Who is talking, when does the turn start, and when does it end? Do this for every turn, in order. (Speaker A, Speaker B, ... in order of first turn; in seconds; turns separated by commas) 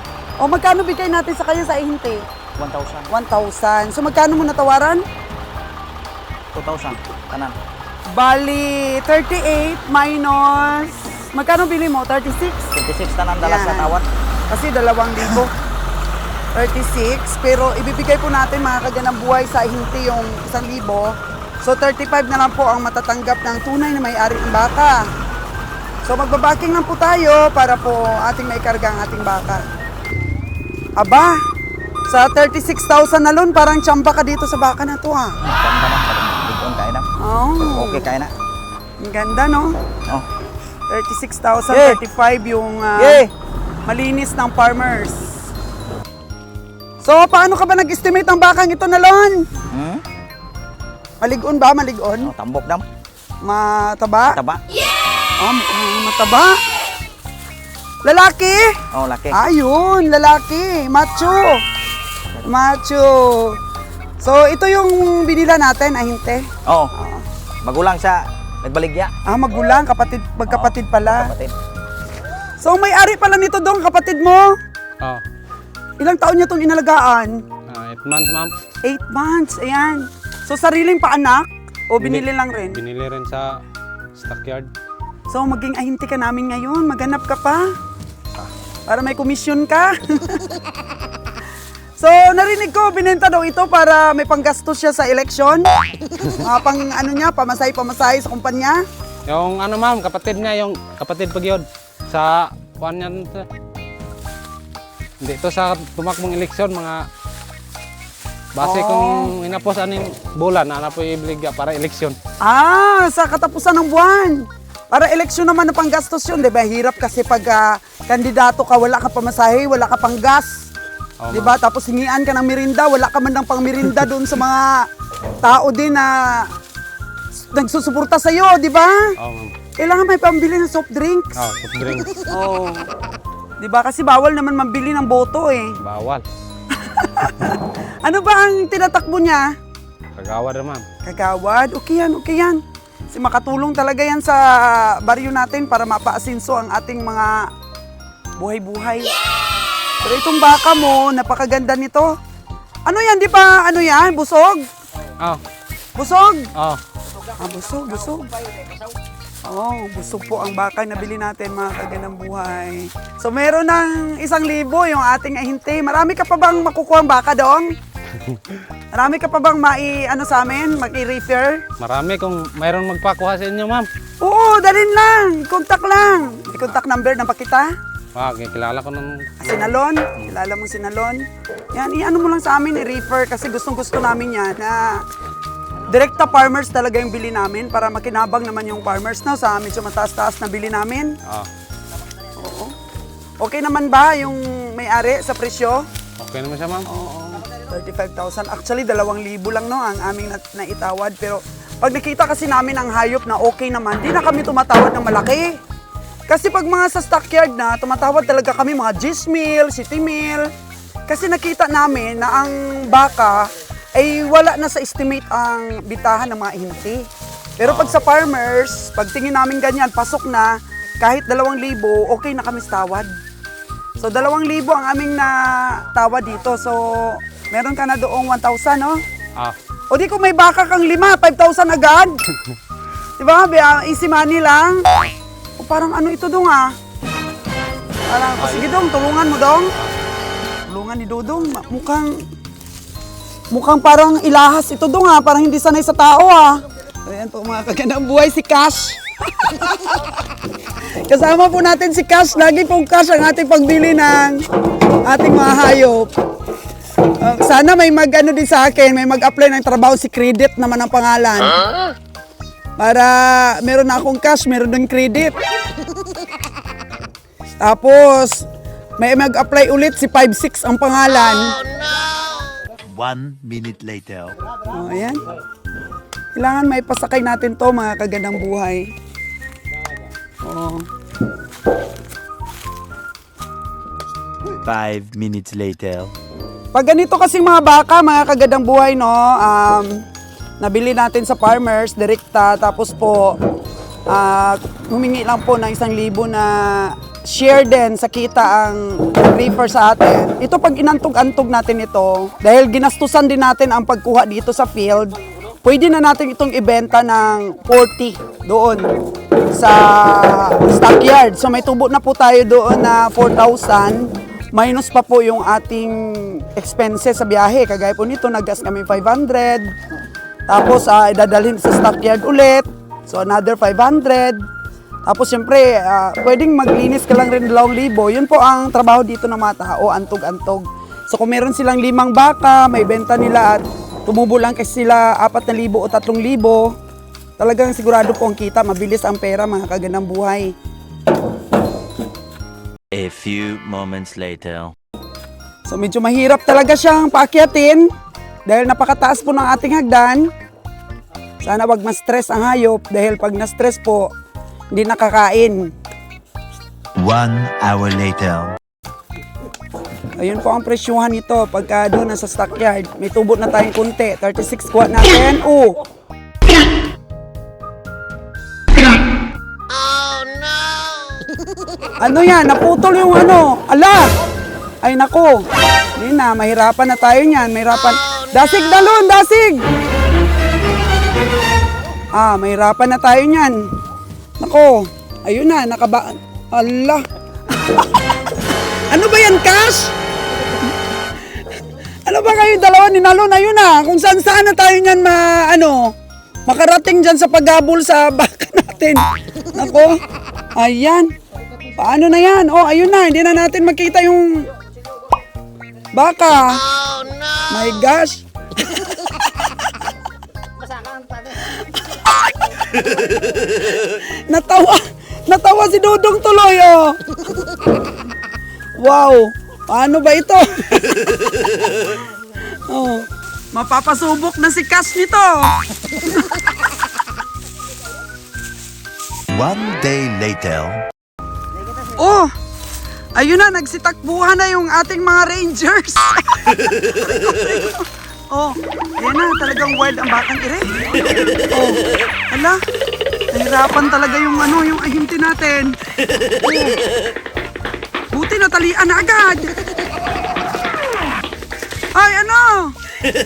Speaker A: 0.4-2.2, Speaker B: 2.6-3.1, Speaker A: 3.1-5.0, Speaker B: 6.5-7.5, Speaker A: 8.1-12.7, Speaker B: 12.8-14.0, Speaker A: 13.4-13.9, Speaker A: 14.5-15.6, Speaker A: 16.5-25.1, Speaker A: 26.1-29.6, Speaker A: 31.0-31.4, Speaker A: 32.1-35.4, Speaker B: 35.5-37.1, Speaker A: 37.2-38.1, Speaker B: 37.7-38.3, Speaker A: 39.0-39.8, Speaker A: 40.9-43.3, Speaker B: 41.7-42.0, Speaker B: 43.0-43.3, Speaker A: 43.9-45.3, Speaker A: 47.0-49.4, Speaker B: 49.7-50.0, Speaker A: 51.2-52.3, Speaker B: 52.2-52.9, Speaker A: 53.4-54.4, Speaker B: 54.3-54.6, Speaker A: 55.4-56.6, Speaker A: 58.0-58.8, Speaker B: 58.9-59.4, Speaker A: 59.3-61.6, Speaker A: 62.5-63.6, Speaker A: 64.2-67.3, Speaker B: 67.6-69.1, Speaker A: 69.3-71.3, Speaker B: 70.5-71.5, Speaker A: 72.6-74.5, Speaker A: 76.0-77.4, Speaker C: 77.7-78.5, Speaker A: 78.8-82.8, Speaker C: 82.0-83.5, Speaker C: 84.2-84.7, Speaker A: 85.3-87.7, Speaker A: 88.9-90.6, Speaker A: 92.0-95.7, Speaker A: 96.3-98.8, Speaker C: 99.3-103.5, Speaker C: 105.2-107.0, Speaker C: 108.5-112.2, Speaker A: 108.6-109.3, Speaker A: 112.4-120.7, Speaker C: 121.2-121.5, Speaker A: 121.3-124.8, Speaker A: 125.4-126.5, Speaker A: 127.5-129.1, Speaker C: 129.2-129.5, Speaker A: 129.8-131.4, Speaker C: 131.4-132.2, Speaker A: 132.2-132.9, Speaker A: 133.6-135.8, Speaker C: 135.8-136.2, Speaker A: 136.7-139.5, Speaker C: 140.2-140.8, Speaker A: 141.0-142.6, Speaker A: 143.1-147.5, Speaker A: 148.4-149.2, Speaker A: 150.0-152.1, Speaker A: 152.9-154.7, Speaker A: 156.0-156.5, Speaker A: 157.4-158.3, Speaker A: 159.5-167.7, Speaker A: 168.9-171.6, Speaker C: 171.8-173.9, Speaker A: 174.2-177.7, Speaker C: 178.2-179.3, Speaker A: 179.4-181.2, Speaker A: 181.7-185.0, Speaker A: 185.9-191.1, Speaker A: 192.4-192.7, Speaker A: 193.4-195.8, Speaker C: 196.2-196.8, Speaker A: 196.9-205.5, Speaker A: 206.3-210.5, Speaker A: 211.1-217.1, Speaker A: 217.6-223.1, Speaker C: 217.6-218.0, Speaker A: 224.0-229.0, Speaker A: 229.9-232.2, Speaker A: 233.2-234.9, Speaker A: 235.6-236.7, Speaker A: 238.1-239.7, Speaker C: 238.4-238.7, Speaker A: 240.7-242.2, Speaker A: 243.5-250.1, Speaker A: 251.1-254.4, Speaker A: 255.1-256.1, Speaker A: 257.2-261.6, Speaker A: 262.8-265.4, Speaker A: 267.6-268.4, Speaker A: 269.0-271.6, Speaker D: 272.9-274.4, Speaker A: 274.7-275.2, Speaker A: 276.3-278.9, Speaker A: 280.4-280.9, Speaker D: 284.6-286.1, Speaker A: 286.7-290.0, Speaker A: 290.6-293.4, Speaker A: 294.1-308.9, Speaker A: 309.5-319.7, Speaker A: 320.5-324.4, Speaker A: 325.1-336.7, Speaker A: 337.4-340.5, Speaker D: 342.9-344.8, Speaker A: 345.7-347.9, Speaker A: 348.5-350.3, Speaker A: 351.4-354.1, Speaker A: 354.7-355.7, Speaker D: 357.0-358.6, Speaker A: 360.2-365.8, Speaker A: 372.0-374.1, Speaker A: 374.8-375.4, Speaker A: 375.9-379.6, Speaker A: 382.1-383.6, Speaker A: 384.4-387.0, Speaker A: 388.9-389.9, Speaker A: 392.1-395.9, Speaker A: 396.5-400.0, Speaker A: 400.6-401.1, Speaker A: 401.8-404.5, Speaker A: 405.9-406.7, Speaker A: 407.5-409.5, Speaker A: 411.3-417.5, Speaker A: 418.8-421.1, Speaker A: 422.5-426.2, Speaker D: 429.3-430.9, Speaker A: 431.9-432.3, Speaker A: 433.1-440.8, Speaker A: 441.4-442.6, Speaker A: 443.3-445.8, Speaker A: 446.3-446.8, Speaker A: 448.1-449.8, Speaker A: 451.9-452.8